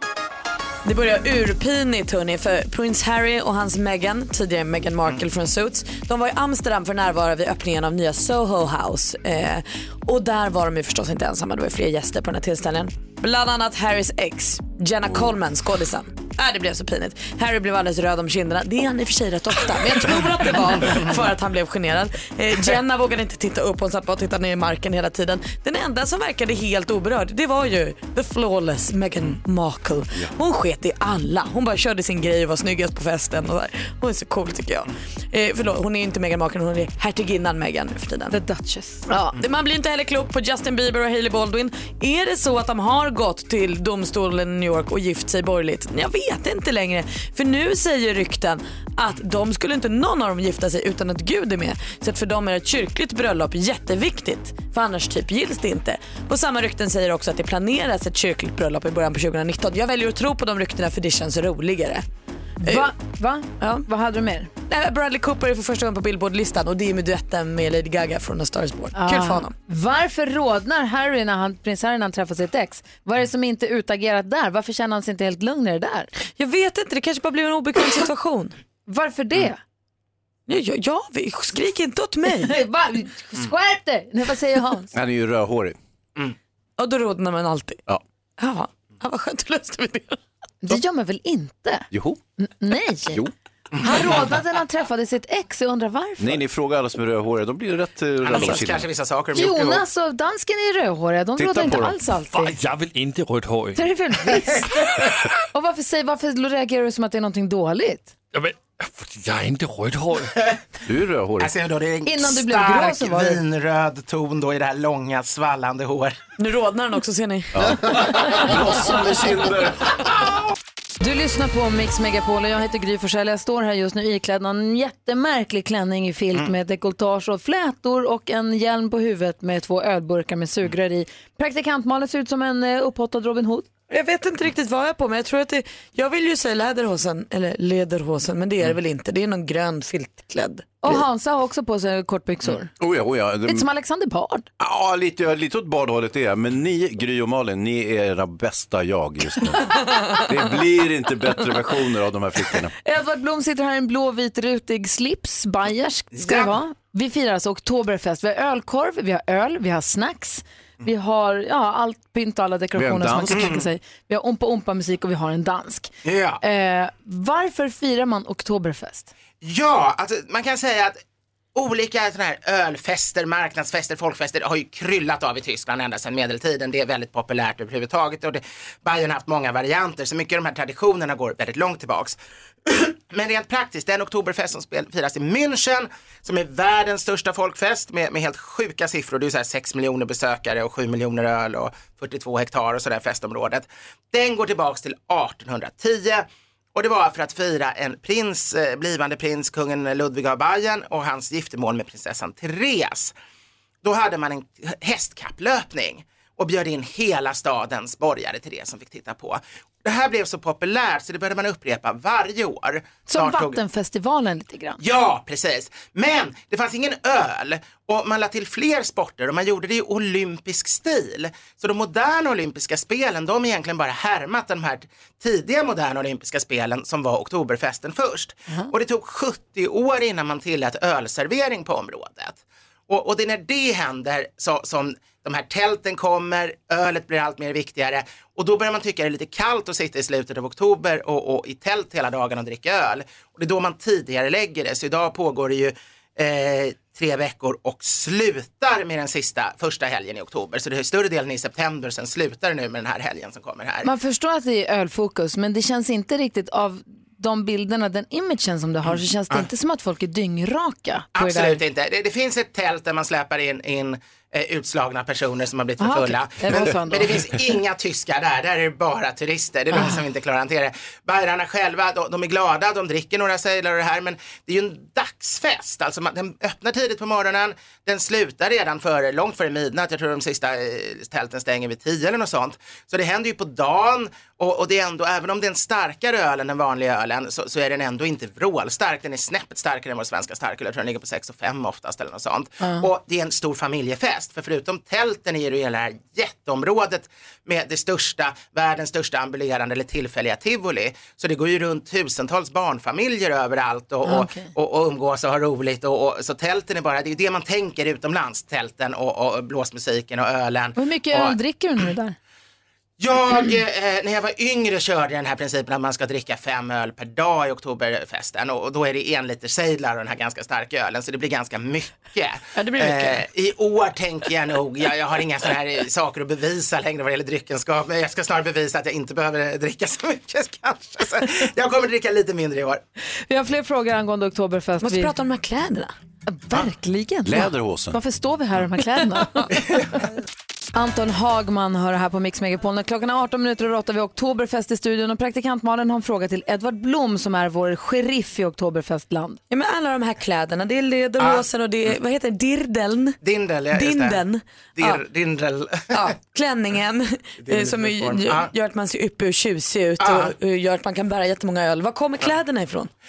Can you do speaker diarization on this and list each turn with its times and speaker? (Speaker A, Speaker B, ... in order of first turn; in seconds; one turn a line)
Speaker A: 0.8-38.4
Speaker B: 38.3-39.1
Speaker A: 39.1-62.0
Speaker B: 62.6-64.5
Speaker A: 62.6-62.9
Speaker A: 63.6-63.8
Speaker A: 64.7-69.5
Speaker B: 68.9-76.1
Speaker A: 76.3-78.5
Speaker B: 78.9-79.6
Speaker A: 80.5-82.6
Speaker B: 82.4-84.9
Speaker C: 84.9-85.8
Speaker A: 86.8-87.8
Speaker A: 88.4-90.2
Speaker B: 90.6-93.2
Speaker C: 91.9-92.2
Speaker D: 93.8-94.1
Speaker B: 93.8-96.4
Speaker C: 96.2-98.8
Speaker D: 98.2-99.8
Speaker B: 99.3-102.6
Speaker C: 101.4-102.0
Speaker E: 102.3-103.8
Speaker B: 103.7-108.1
Speaker E: 108.3-110.3
Speaker C: 110.8-111.5
Speaker D: 111.4-116.2
Speaker B: 112.0-113.4
Speaker A: 116.4-117.7
Speaker C: 117.5-120.0
Speaker B: 121.0-133.7
Speaker A: 133.9-141.0
Speaker B: 140.8-142.7
Speaker C: 142.8-143.7
Speaker B: 143.4-144.4
Speaker C: 144.6-152.7
Speaker A: 149.8-150.2
Speaker B: 152.8-169.1
Speaker D: 156.1-156.6
Speaker C: 162.8-163.6
Speaker D: 166.0-166.4
Speaker D: 169.4-171.0
Speaker D: 171.5-203.1
Speaker D: 203.8-213.6
Speaker B: 213.1-214.8
Speaker D: 214.8-253.9
Speaker B: 253.8-261.6
Speaker D: 261.1-311.4
Speaker B: 265.8-267.2
Speaker B: 269.7-270.0
Speaker B: 304.0-304.5
Speaker B: 310.8-312.2
Speaker D: 313.0-332.8
Speaker A: 322.5-323.2
Speaker B: 333.3-335.1
Speaker A: 334.8-335.9
Speaker B: 336.3-339.6
Speaker C: 337.2-338.0
Speaker B: 340.7-349.4
Speaker A: 349.5-353.2
Speaker D: 351.2-351.9
Speaker D: 353.2-354.2
Speaker A: 353.7-355.0
Speaker D: 354.8-356.1
Speaker A: 355.9-362.9
Speaker D: 357.4-358.5
Speaker D: 360.0-360.3